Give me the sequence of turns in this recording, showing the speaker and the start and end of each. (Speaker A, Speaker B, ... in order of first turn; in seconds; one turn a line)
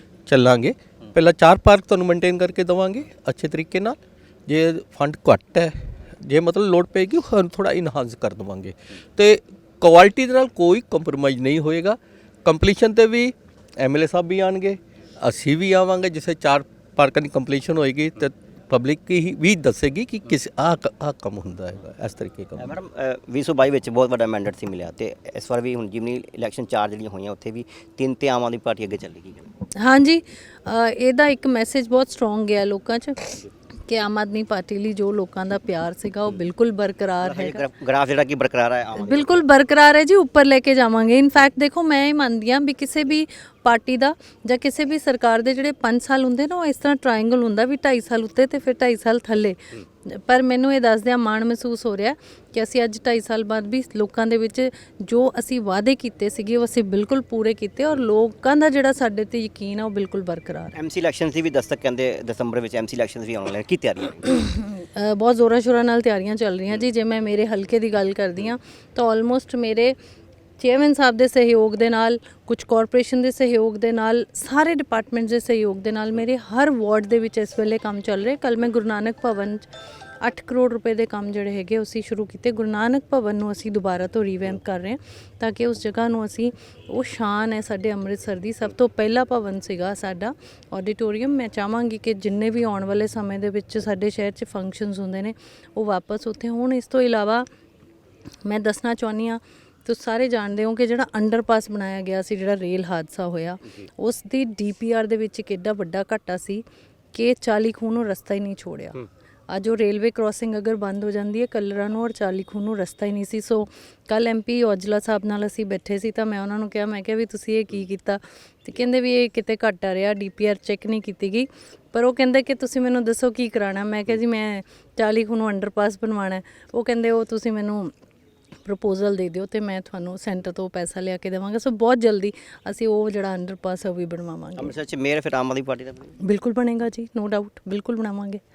Speaker A: 0.2-22.7
Speaker B: 22.6-29.5
Speaker C: 29.8-37.6
Speaker B: 37.2-39.4
Speaker C: 39.0-60.7
Speaker B: 60.7-64.3
Speaker C: 64.2-69.9
Speaker C: 70.6-79.7
Speaker C: 80.2-97.5
Speaker C: 98.4-106.6
Speaker C: 107.1-109.0
Speaker C: 109.5-127.9
Speaker C: 128.6-134.7
Speaker B: 134.6-136.2
Speaker C: 136.2-138.4